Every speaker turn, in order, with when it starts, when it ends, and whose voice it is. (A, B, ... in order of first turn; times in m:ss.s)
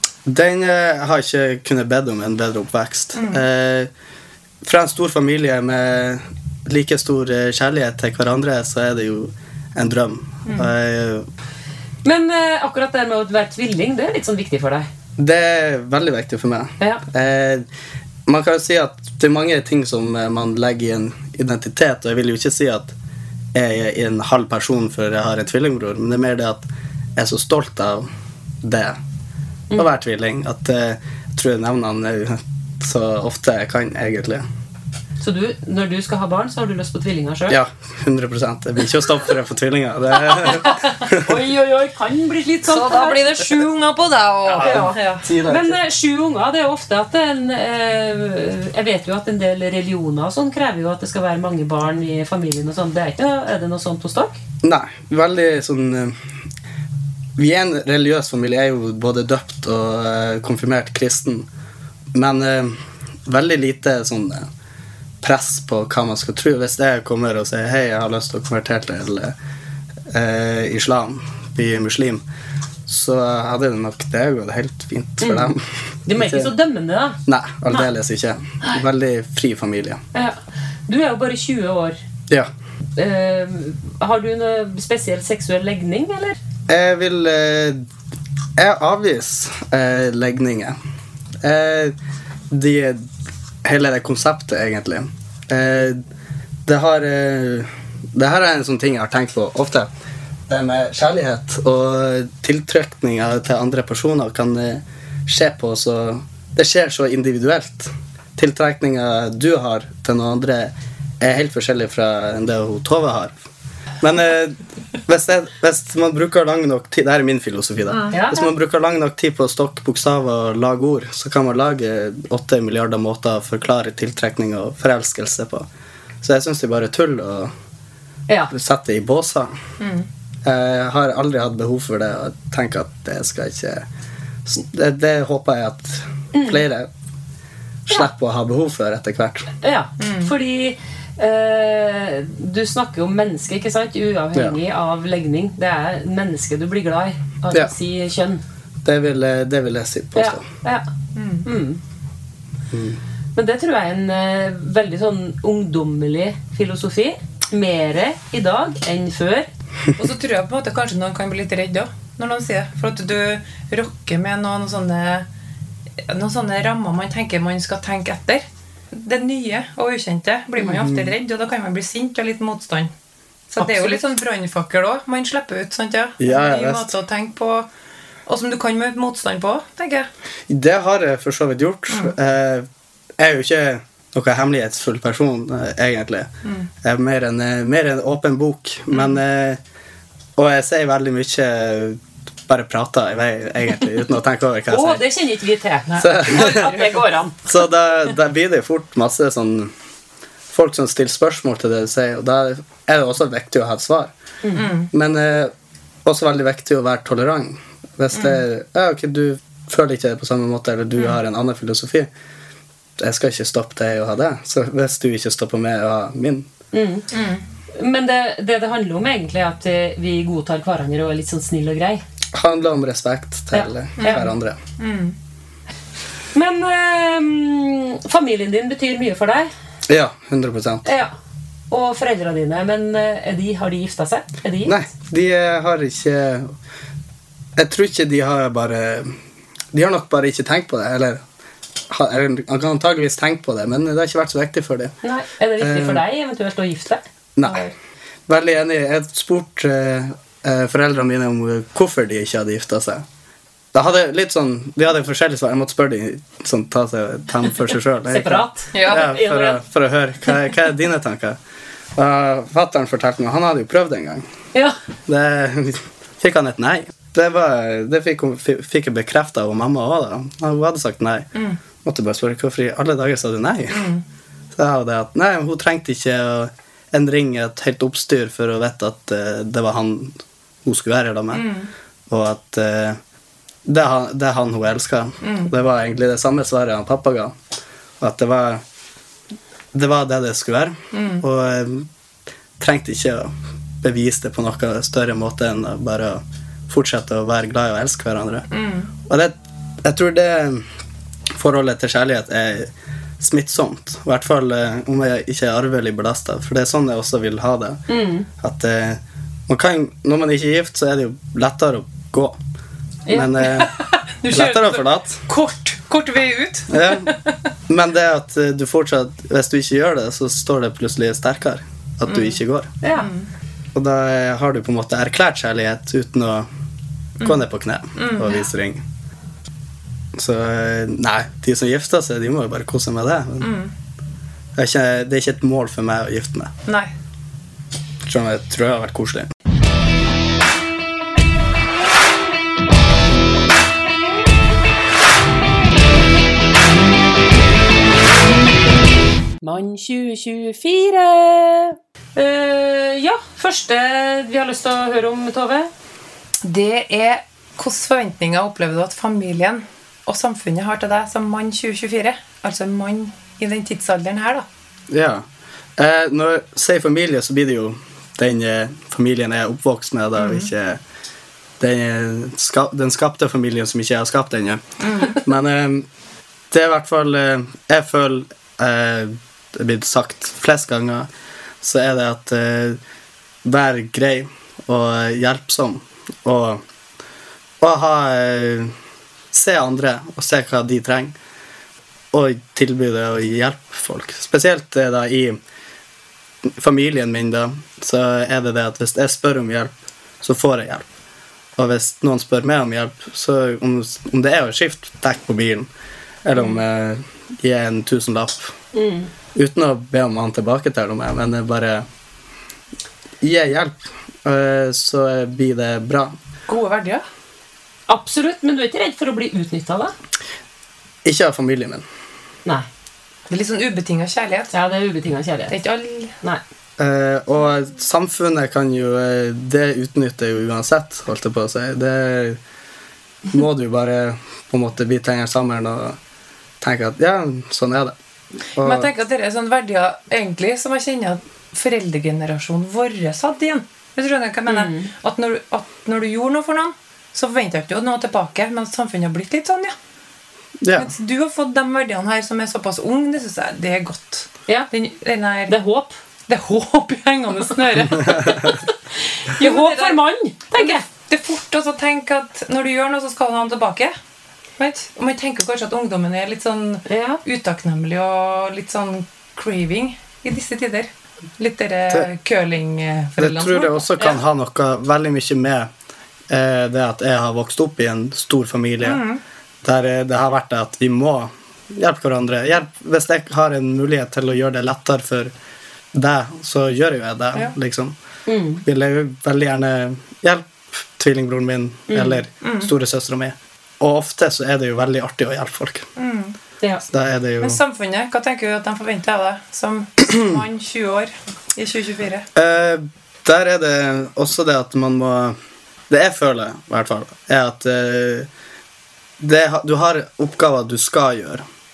0:00.3-0:03.9 A
0:03.1-0:03.4 B
0:04.6-0:11.2 A
0:12.0-0:14.9 C
0:15.2-0:17.6 A
0:18.3-0:22.9 A
0:23.5-0:28.1 A
0:28.6-0:29.0 A
0:29.7-0:34.4 A
0:35.2-0:37.6 C
0:37.5-0:41.3 A
0:40.5-0:43.2 C
0:42.7-0:45.2 B
0:44.5-0:45.8 A
0:44.6-0:54.4 C
0:54.6-0:56.2 A
0:57.4-1:01.5 A
1:02.1-1:04.5 A
1:05.2-1:09.3 A
1:10.1-1:12.2 A
1:12.8-1:16.5 A
1:15.2-1:15.5 C
1:16.0-1:17.2 C
1:17.2-1:20.0 A
1:20.9-1:22.0 C
1:23.0-1:26.4 C
1:26.7-1:27.8 A
1:28.6-1:30.8 A
1:31.4-1:32.0 A
1:32.5-1:33.1 A
1:33.6-1:36.0 A
1:36.6-1:39.9 A
1:40.5-1:53.4 A
1:54.0-2:05.6 A
1:57.9-1:58.2 B
1:58.1-1:58.5 C
2:06.2-2:07.5 A
2:08.5-2:09.5 A
2:09.8-2:10.1 B
2:10.4-2:13.8 A
2:14.4-2:16.9 A
2:17.9-2:19.5 A
2:19.6-2:28.4 C
2:20.0-2:20.3 B
2:28.8-2:30.4 A
2:30.1-2:30.9 C
2:31.1-2:31.4 B
2:31.4-2:31.8 C
2:32.7-2:33.0 A
2:33.4-2:39.5 C
2:39.9-2:45.2 B
2:46.0-2:52.9 B
2:50.6-2:51.1 A
2:53.5-2:57.7 B
2:53.6-2:54.0 A
2:56.2-2:56.9 A
2:58.3-3:00.1 B
3:00.5-3:02.7 A
3:03.2-3:06.3 A
3:06.8-3:09.6 A
3:10.4-3:15.0 A
3:14.7-3:17.4 C
3:16.0-3:16.7 A
3:16.3-3:17.0 B
3:17.4-3:19.7 A
3:20.5-3:24.1 A
3:24.5-3:24.9 B
3:24.9-3:25.5 A
3:26.0-3:32.1 A
3:28.1-3:28.4 B
3:33.0-3:36.5 A
3:36.7-3:37.0 C
3:37.1-3:37.4 B
3:37.7-3:42.0 C
3:42.3-3:44.6 A
3:43.5-3:44.3 C
3:44.0-3:45.1 B
3:46.3-3:49.5 C
3:49.9-3:50.8 A
3:50.8-3:51.1 C
3:51.7-3:54.8 C
3:54.6-3:56.5 A
3:57.6-3:59.2 A
3:59.7-4:01.2 A
4:01.9-4:04.9 A
4:05.0-4:07.7 C
4:05.6-4:06.0 A
4:07.4-4:07.6 A
4:08.3-4:13.0 A
4:13.7-4:21.4 A
4:18.1-4:19.6 C
4:18.7-4:19.0 B
4:22.0-4:24.2 A
4:25.1-4:31.3 A
4:31.3-4:31.6 B
4:31.8-4:33.9 A
4:33.7-4:34.0 B
4:34.5-4:41.4 A
4:41.3-4:41.7 B
4:42.1-4:43.0 A
4:43.6-4:47.3 A
4:45.2-4:45.5 B
4:48.0-4:48.6 A
4:49.7-4:51.9 A
4:50.9-4:51.2 B
4:52.6-4:58.5 A
4:58.5-4:58.9 B
4:59.0-5:00.6 A
5:01.4-5:07.8 A
5:07.9-5:08.3 C
5:08.4-5:12.4 A
5:13.0-5:13.4 C
5:13.1-5:13.7 A
5:14.2-5:17.4 B
5:14.3-5:15.2 A
5:16.7-5:17.1 A
5:17.7-5:22.7 A
5:22.1-5:22.4 B
5:22.8-5:23.1 C
5:22.9-5:23.3 B
5:23.7-5:26.5 A
5:27.2-5:28.8 A
5:27.9-5:28.4 B
5:30.1-5:33.5 A
5:33.4-5:33.7 B
5:34.5-5:36.5 A
5:36.6-5:36.9 B
5:38.0-5:39.3 A
5:49.4-5:55.7 C
5:56.4-6:04.4 B
6:04.9-6:05.2 A
6:05.8-6:10.8 A
6:10.2-6:10.5 B
6:11.6-6:15.9 A
6:14.8-6:15.2 B
6:16.5-6:21.1 A
6:21.6-6:22.8 A
6:23.4-6:26.6 A
6:27.6-6:28.7 A
6:29.3-6:31.1 A
6:32.1-6:35.4 A
6:36.4-6:40.9 A
6:41.6-6:45.7 A
6:46.2-6:48.6 A
6:48.7-6:49.1 C
6:49.3-6:51.8 A
6:53.2-6:56.2 A
6:56.5-6:57.0 B
6:57.9-6:59.9 C
7:01.0-7:01.8 A
7:03.3-7:04.5 B
7:04.5-7:05.6 C
7:05.5-7:06.2 B
7:06.8-7:12.4 A
7:13.3-7:16.0 A
7:16.6-7:17.9 A
7:18.6-7:18.9 A
7:18.6-7:29.8 B
7:24.5-7:24.9 C
7:30.6-7:30.9 A
7:30.7-7:35.6 B
7:35.5-7:35.9 C
7:36.3-7:38.6 B
7:38.3-7:38.5 C
7:39.2-7:40.8 C
7:39.3-7:40.0 B
7:40.5-7:43.9 B
7:44.6-7:53.9 B
7:46.8-7:47.2 C
7:53.2-7:55.7 A
7:56.3-7:59.0 A
7:58.8-7:59.2 B
7:59.6-8:05.3 A
8:05.9-8:07.9 A
8:08.3-8:08.6 C
8:08.6-8:15.9 A
8:11.9-8:12.2 C
8:12.4-8:12.7 B
8:16.0-8:16.4 B
8:16.9-8:17.6 A
8:17.4-8:22.3 B
8:22.3-8:25.4 A
8:25.9-8:28.3 A
8:29.2-8:31.4 A